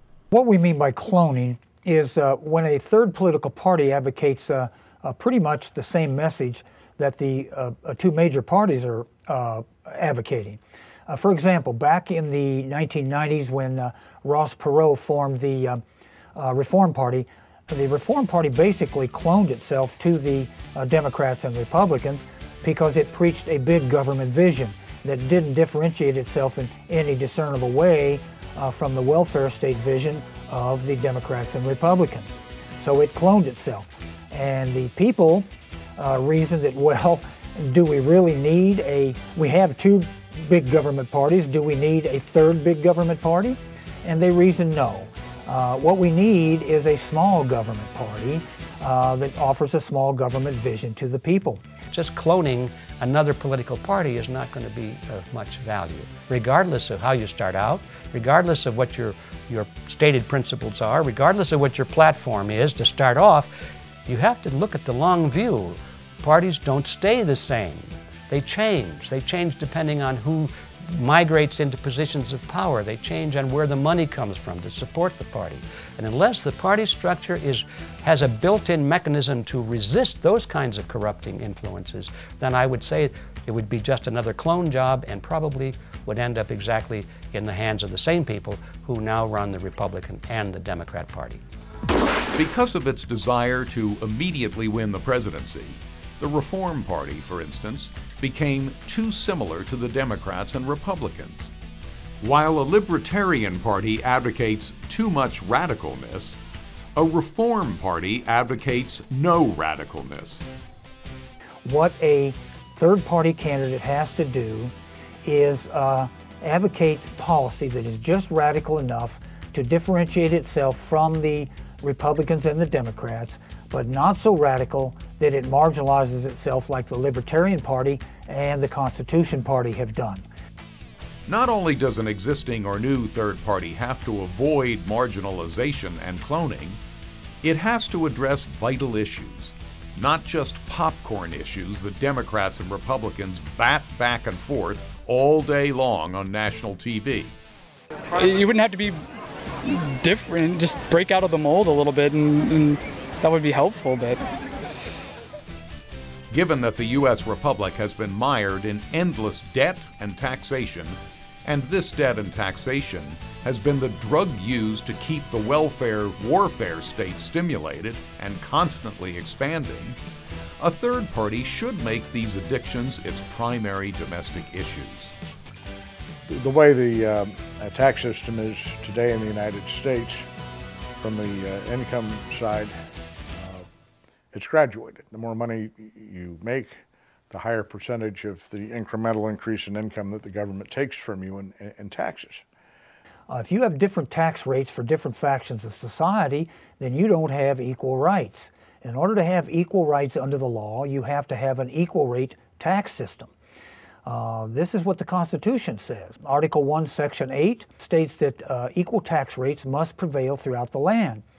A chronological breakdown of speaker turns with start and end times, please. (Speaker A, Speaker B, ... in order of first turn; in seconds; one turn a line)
Speaker A: 0.3-15.8
Speaker A: 16.4-51.6
Speaker B: 51.9-91.4
Speaker C: 92.4-101.5
Speaker C: 102.2-106.4
Speaker C: 107.0-110.4
Speaker A: 111.7-114.7
Speaker A: 115.2-130.2
Speaker C: 131.3-136.8
Speaker C: 137.4-147.3
Speaker D: 148.2-149.0
Speaker D: 149.7-154.2
Speaker C: 156.3-170.0
Speaker C: 170.6-175.1
Speaker E: 176.3-180.3
Speaker E: 181.0-182.8
Speaker E: 183.4-183.7
Speaker E: 184.3-192.4
Speaker A: 193.3-203.3
Speaker A: 204.1-211.2